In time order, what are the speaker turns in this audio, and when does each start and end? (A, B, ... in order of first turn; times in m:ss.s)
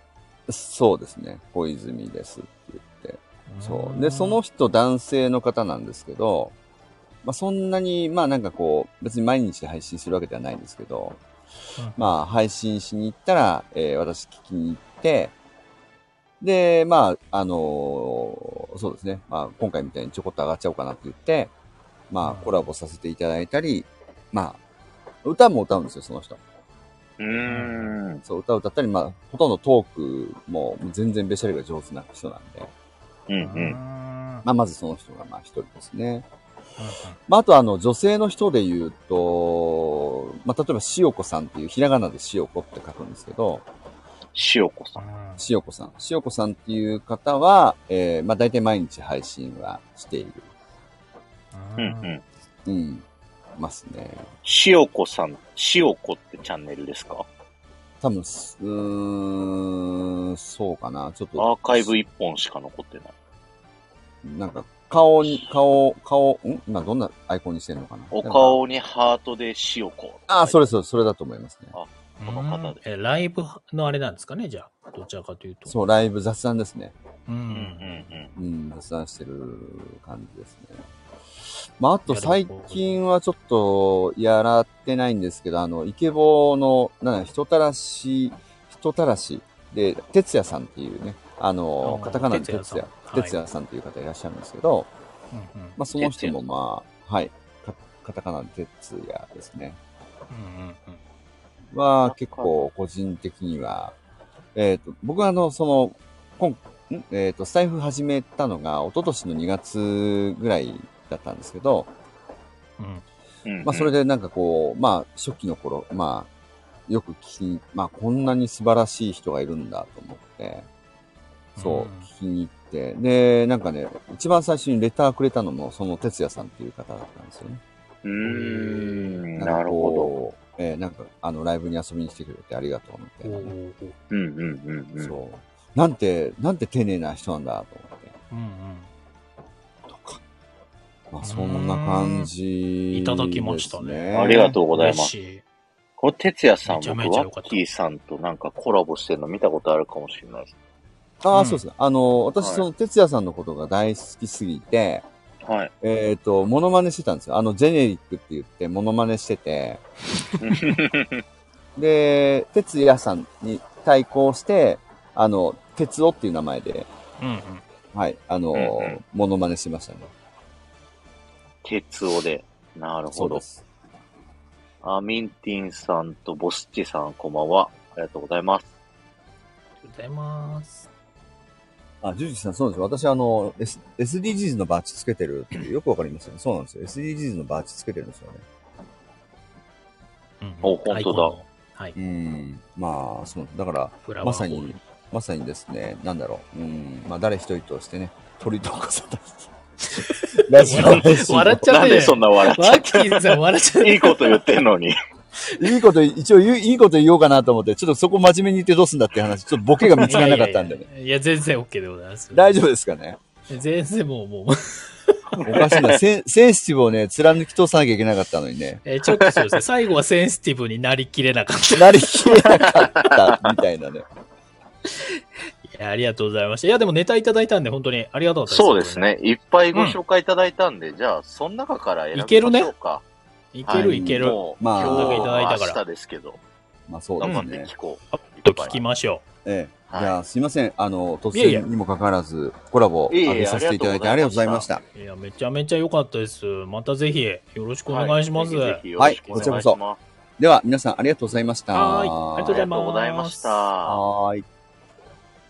0:00.5-0:06.5 A
0:03.5-0:04.4 B
0:07.2-0:11.2 A
0:11.8-0:12.1 B
0:12.0-0:15.3 A
0:16.4-0:21.5 A
0:22.1-0:24.6 A
0:22.2-0:22.6 B
0:25.2-0:26.4 A
0:27.2-0:28.2 C
0:27.4-0:28.0 B
0:28.2-0:32.7 A
0:33.3-0:33.8 C
0:33.4-0:34.4 B
0:34.4-0:36.2 A
0:36.8-0:37.2 B
0:37.3-0:43.6 A
0:44.3-0:45.0 C
0:45.0-0:45.4 B
0:45.4-0:50.5 A
0:51.5-0:52.1 B
0:51.8-0:52.2 C
0:52.6-0:53.0 A
0:53.6-0:54.3 A
0:54.4-0:57.3 C
0:58.0-1:02.0 A
1:01.4-1:03.1 C
1:04.2-1:08.6 A
1:05.2-1:05.5 C
1:08.1-1:10.7 C
1:10.3-1:11.8 A
1:11.7-1:12.8 C
1:12.2-1:15.7 B
1:15.7-1:16.9 A
1:17.3-1:18.2 B
1:17.5-1:18.3 C
1:18.4-1:20.8 A
1:21.8-1:34.9 A
1:22.1-1:23.0 B
1:31.8-1:33.3 B
1:35.3-1:35.8 B
1:35.8-1:39.8 A
1:36.0-1:36.4 C
1:40.3-1:41.0 B
1:41.7-1:43.9 A
1:42.0-1:42.6 C
1:44.5-1:51.9 A
1:52.8-1:53.0 B
1:53.4-1:53.9 C
1:53.6-1:56.3 A
1:56.9-2:00.7 A
2:01.6-2:02.1 B
2:01.6-2:07.6 A
2:08.0-2:10.1 C
2:08.2-2:09.2 B
2:09.4-2:13.6 A
2:13.2-2:14.0 B
2:14.1-2:15.1 C
2:15.0-2:18.2 A
2:18.3-2:18.9 B
2:19.9-2:20.2 A
2:21.1-2:24.5 A
2:21.2-2:22.3 B
2:22.9-2:25.4 B
2:24.1-2:25.1 C
2:26.0-2:30.5 C
2:26.6-2:27.6 B
2:31.2-2:35.0 A
2:31.3-2:31.6 B
2:32.4-2:32.6 C
2:35.4-2:35.7 C
2:35.8-2:39.8 A
2:40.4-2:41.2 C
2:41.8-2:46.9 A
2:47.2-2:47.6 B
2:47.9-2:50.1 A
2:48.5-2:49.0 C
2:51.6-2:53.4 C
2:53.1-2:53.6 A
2:54.8-2:58.7 C
2:59.8-3:00.9 B
3:02.0-3:08.4 A
3:10.4-3:12.0 B
3:10.6-3:11.4 C
3:12.0-3:21.7 A
3:14.0-3:14.8 B
3:19.9-3:24.4 B
3:20.7-3:21.0 C
3:21.6-3:24.9 C
3:25.5-3:30.8 A
3:30.0-3:32.6 B
3:32.3-3:33.2 A
3:33.5-3:35.2 B
3:35.4-3:38.8 A
3:35.4-3:36.0 C
3:38.8-3:42.5 B
3:41.7-3:44.0 A
3:42.7-3:43.1 C
3:45.6-3:49.0 B
3:48.5-3:53.0 C
3:52.1-3:52.7 B
3:53.5-3:55.8 B
3:53.6-3:56.4 C
3:53.7-3:55.3 A
3:56.9-3:57.7 A
3:57.2-3:58.8 C
3:57.2-3:57.5 B
3:58.1-3:59.2 B
3:59.4-4:04.8 A
3:59.9-4:00.2 C
4:01.3-4:01.7 B
4:03.1-4:04.7 C
4:04.9-4:09.6 B
4:07.9-4:10.0 C
4:09.0-4:09.8 A
4:10.4-4:12.6 A
4:11.7-4:13.7 B
4:12.4-4:14.0 C
4:13.8-4:14.4 A